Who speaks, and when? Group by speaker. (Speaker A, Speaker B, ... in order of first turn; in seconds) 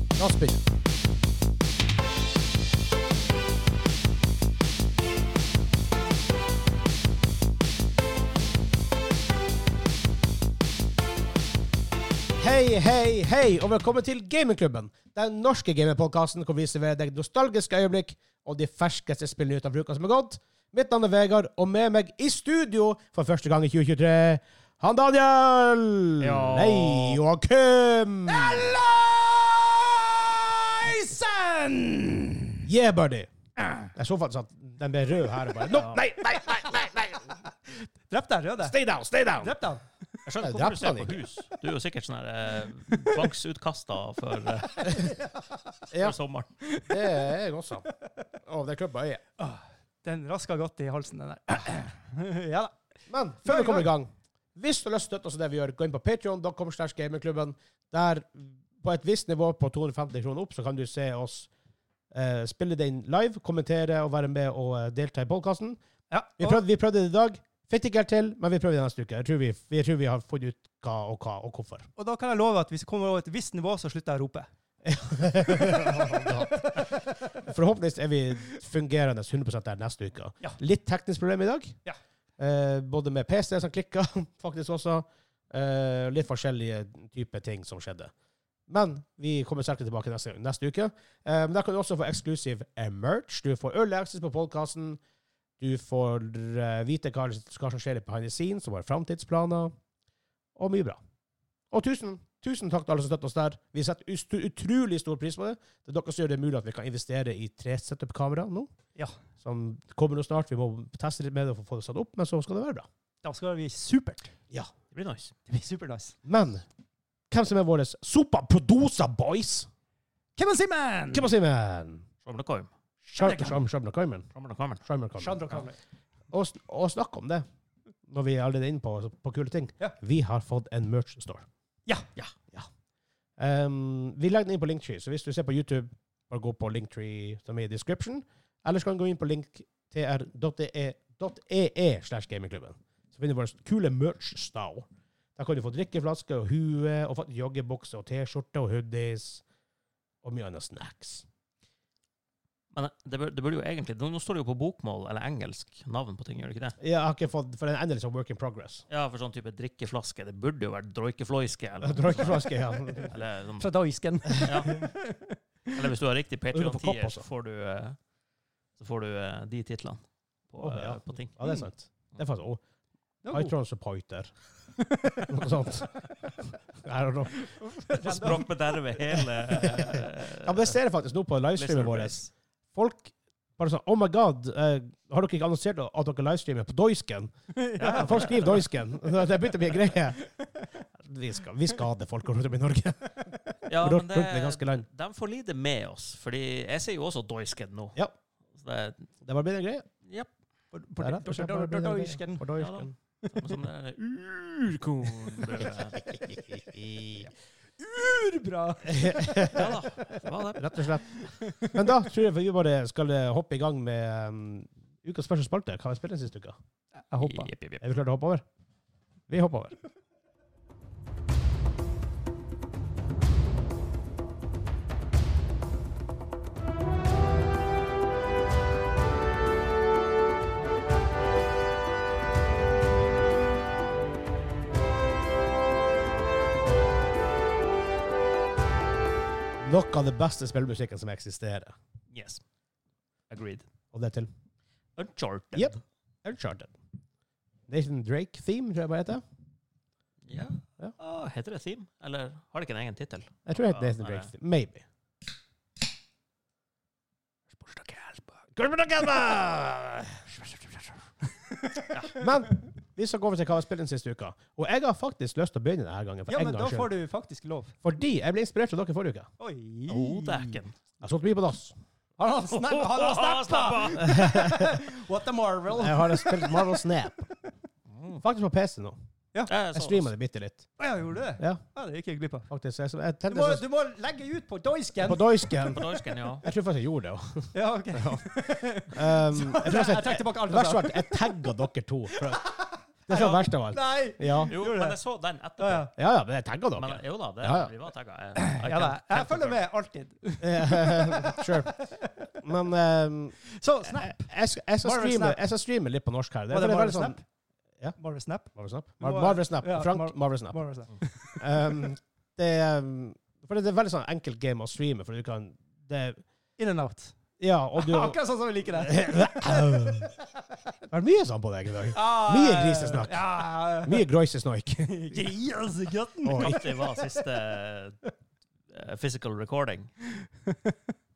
Speaker A: 0.1-0.6, 12.4-28.7, 32.6-33.3, 33.9-37.3, 38.6-39.5, 40.4-41.2, 45.9-46.1, 46.9-47.8, 48.4-49.2, 53.1-61.5, 62.1-65.8, 66.4-71.9, 74.8-81.8, 82.4-88.1, 88.7-95.0, 95.6-99.7, 100.5-101.0, 101.7-108.7, 109.4-112.9, 116.2-116.6, 117.3-119.7, 121.1-122.0, 123.2-124.3, 124.8-125.5, 126.3-127.4, 128.1-131.4, 133.4-149.4, 150.2-151.2, 156.8-158.8, 161.8-163.1, 166.5-167.2, 170.6-172.6, 173.3-174.3, 175.2-176.1, 176.8-177.5, 179.6-182.2, 182.7-190.2, 191.0-194.8, 199.2-199.9, 201.0-202.9, 205.9-207.3, 208.9-209.6, 210.5-211.1, 211.6-216.6, 217.8-218.4, 219.3-219.7, 239.6-241.7, 243.9-244.3, 245.5-246.7, 247.7-249.2, 253.4-254.8, 258.5-260.9, 262.1-266.9, 267.8-269.3, 271.0-271.8, 274.0-274.8, 275.7-277.3, 278.2-279.0, 279.7-280.7, 282.5-283.6, 285.0-292.5, 293.1-294.5, 295.9-297.7, 300.4-301.8, 302.4-307.2, 308.5-310.6, 311.4-316.2, 317.4-318.2, 318.7-320.1, 320.9-325.2, 326.2-326.6
Speaker B: 26.2-27.2, 35.7-36.0, 40.2-45.1, 45.9-46.5, 114.9-115.3, 122.2-122.7, 124.3-124.8, 152.7-156.8, 158.9-163.7, 164.4-164.7, 165.7-168.0, 168.8-171.3, 178.0-180.8, 181.6-182.3, 187.8-188.7, 193.7-197.9, 198.5-199.1, 200.0-200.3, 202.6-206.2, 209.5-210.8, 217.2-217.8, 242.1-242.4, 243.3-243.7, 244.9-245.8, 250.2-254.3, 261.9-262.2, 269.9-270.8, 272.5-274.3, 277.9-278.2, 279.5-280.1, 285.6-286.4, 293.1-293.4, 294.5-295.9, 296.8-299.6, 326.3-328.0, 328.7-329.9
Speaker C: 28.3-32.6, 37.7-38.8, 39.4-40.0, 42.9-43.3, 44.6-45.8, 46.6-47.3, 49.4-52.7, 53.4-53.9, 66.1-66.6, 72.0-74.5, 75.3-77.3, 113.2-114.3, 115.5-116.2, 120.3-121.3, 123.1-123.6, 125.2-125.8, 163.6-165.9, 173.2-173.5, 174.8-175.5, 177.6-179.3, 187.5-190.7, 200.7-202.4, 203.2-203.5, 205.0-206.2, 207.2-210.2, 211.0-212.0, 217.1-217.5, 261.5-262.0, 266.3-267.8, 269.4-270.6, 272.2-277.3, 280.8-282.5, 283.3-285.4, 287.5-291.4, 292.1-295.0, 295.6-295.9, 298.4-302.3, 303.4-305.4, 306.5-307.2, 308.0-311.9, 316.6-317.1, 317.8-320.2, 321.9-324.1, 324.8-327.3, 330.2-330.8